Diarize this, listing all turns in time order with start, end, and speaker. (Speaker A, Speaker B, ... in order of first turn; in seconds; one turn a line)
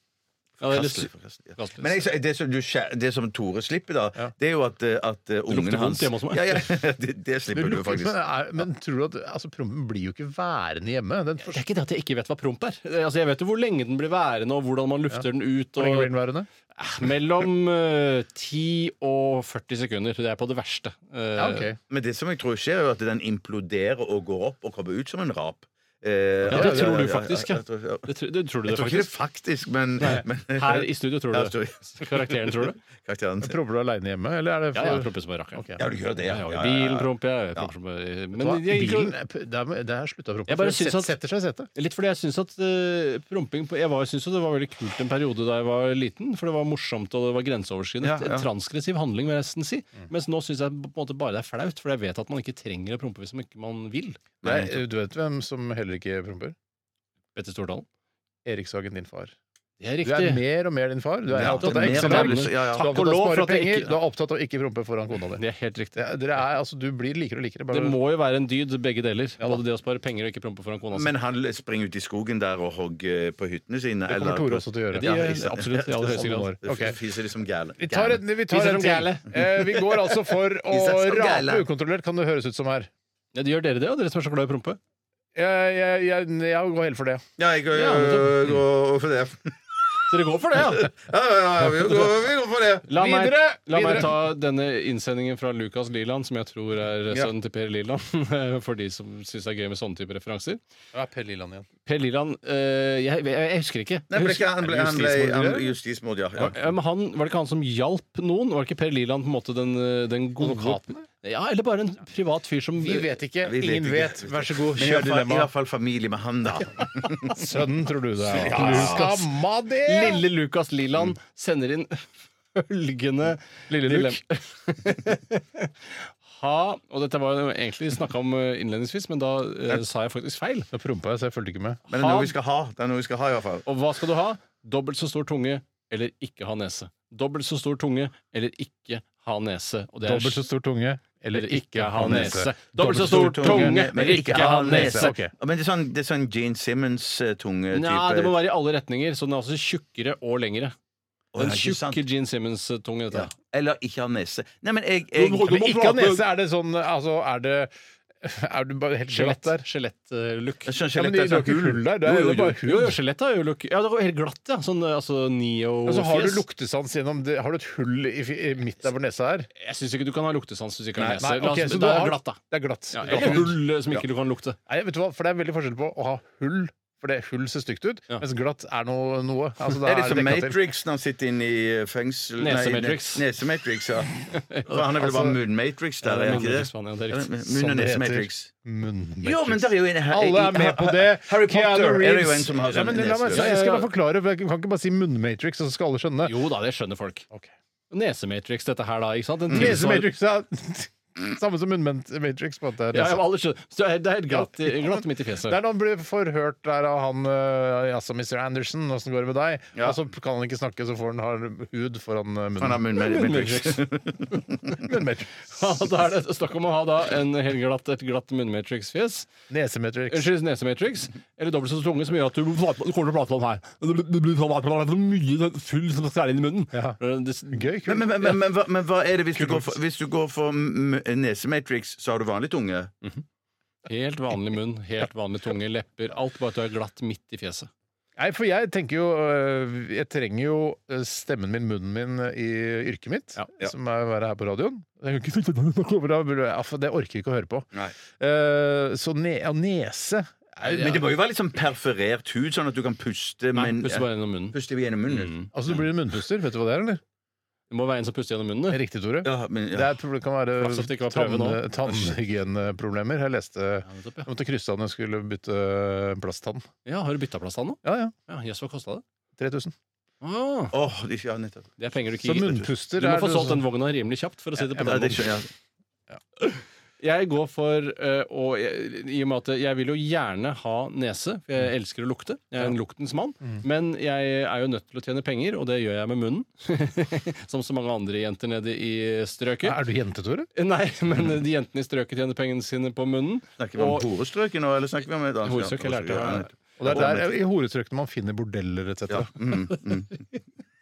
Speaker A: 0.6-2.0
Speaker B: 0.6-8.2
Speaker A: 5.5-6.7
Speaker C: 7.5-11.6
Speaker A: 11.4-16.1
Speaker C: 15.1-16.5
Speaker A: 16.8-21.7
Speaker C: 21.4-21.8
Speaker B: 21.9-28.1
Speaker A: 26.5-29.1
Speaker C: 26.5-27.0
Speaker B: 28.6-33.6
Speaker A: 30.0-32.8
Speaker C: 33.4-35.8
Speaker A: 34.7-35.6
Speaker B: 35.8-37.7
Speaker A: 36.3-39.1
Speaker C: 38.4-41.7
Speaker A: 40.5-41.1
Speaker A: 41.7-54.2
Speaker B: 48.0-48.5
Speaker B: 54.4-54.8
Speaker C: 54.4-56.5
Speaker A: 57.3-57.9
Speaker C: 58.4-59.3
Speaker A: 59.8-60.4
Speaker C: 60.0-65.4
Speaker B: 61.3-62.9
Speaker A: 61.4-63.9
Speaker A: 65.3-66.0
Speaker C: 65.9-68.0
Speaker A: 67.7-71.1
Speaker B: 70.9-78.2
Speaker C: 74.1-77.0
Speaker A: 74.9-76.5
Speaker C: 77.8-82.9
Speaker A: 78.5-79.3
Speaker B: 79.3-80.0
Speaker B: 80.7-81.7
Speaker A: 83.3-84.8
Speaker C: 85.3-87.2
Speaker B: 87.4-89.6
Speaker A: 87.7-88.5
Speaker A: 90.1-90.9
Speaker B: 90.6-92.9
Speaker A: 92.9-100.6
Speaker C: 92.9-94.1
Speaker C: 100.9-101.7
Speaker A: 101.8-105.2
Speaker B: 104.1-106.6
Speaker C: 104.8-105.7
Speaker A: 106.4-113.1
Speaker C: 110.4-111.0
Speaker C: 112.8-115.5
Speaker B: 113.4-117.4
Speaker C: 117.2-120.2
Speaker B: 118.3-119.1
Speaker A: 118.3-119.2
Speaker A: 119.8-130.7
Speaker C: 123.7-124.2
Speaker C: 130.7-131.8
Speaker A: 131.9-132.3
Speaker B: 131.9-133.7
Speaker A: 133.7-140.4
Speaker C: 140.0-145.3
Speaker A: 141.3-145.1
Speaker B: 142.0-148.4
Speaker A: 147.7-150.7
Speaker B: 151.3-152.0
Speaker A: 151.3-153.3
Speaker B: 153.1-155.5
Speaker A: 155.1-156.2
Speaker C: 155.3-159.7
Speaker A: 159.1-160.7
Speaker B: 160.7-162.4
Speaker C: 160.9-163.0
Speaker A: 162.1-166.4
Speaker C: 165.8-169.5
Speaker A: 169.6-172.4
Speaker C: 171.0-173.6
Speaker A: 172.9-174.6
Speaker B: 173.1-174.0
Speaker C: 174.7-180.7
Speaker B: 179.8-188.5
Speaker A: 182.4-183.2
Speaker A: 184.3-184.8
Speaker C: 185.0-185.4
Speaker A: 186.0-187.3
Speaker C: 187.4-196.4
Speaker B: 189.2-193.5
Speaker A: 193.3-193.9
Speaker A: 196.2-197.2
Speaker A: 197.9-200.1
Speaker B: 199.5-199.8
Speaker C: 199.5-203.2
Speaker A: 202.9-205.6
Speaker C: 204.3-212.8
Speaker B: 212.6-214.8
Speaker A: 213.0-213.8
Speaker C: 214.7-215.7
Speaker A: 215.4-219.3
Speaker C: 219.5-220.3
Speaker A: 220.1-227.7
Speaker C: 226.7-227.0
Speaker C: 227.5-228.4
Speaker B: 227.8-232.9
Speaker A: 233.8-237.7
Speaker C: 238.2-251.1
Speaker B: 250.6-255.3
Speaker A: 253.5-254.6
Speaker A: 255.1-255.5
Speaker C: 255.5-257.0
Speaker A: 257.7-258.8
Speaker C: 258.7-266.7
Speaker B: 259.2-259.9
Speaker A: 260.6-262.0
Speaker A: 263.8-264.3
Speaker A: 266.8-269.0
Speaker C: 267.8-268.1
Speaker C: 269.4-269.7
Speaker A: 270.2-270.7
Speaker B: 270.7-271.8
Speaker A: 271.8-275.3
Speaker C: 272.2-273.6
Speaker C: 274.6-275.4
Speaker B: 274.8-275.5
Speaker A: 276.5-289.8
Speaker C: 289.6-290.5
Speaker A: 290.5-294.0
Speaker B: 293.6-297.3
Speaker A: 295.4-296.5
Speaker C: 296.8-299.3
Speaker B: 299.1-300.2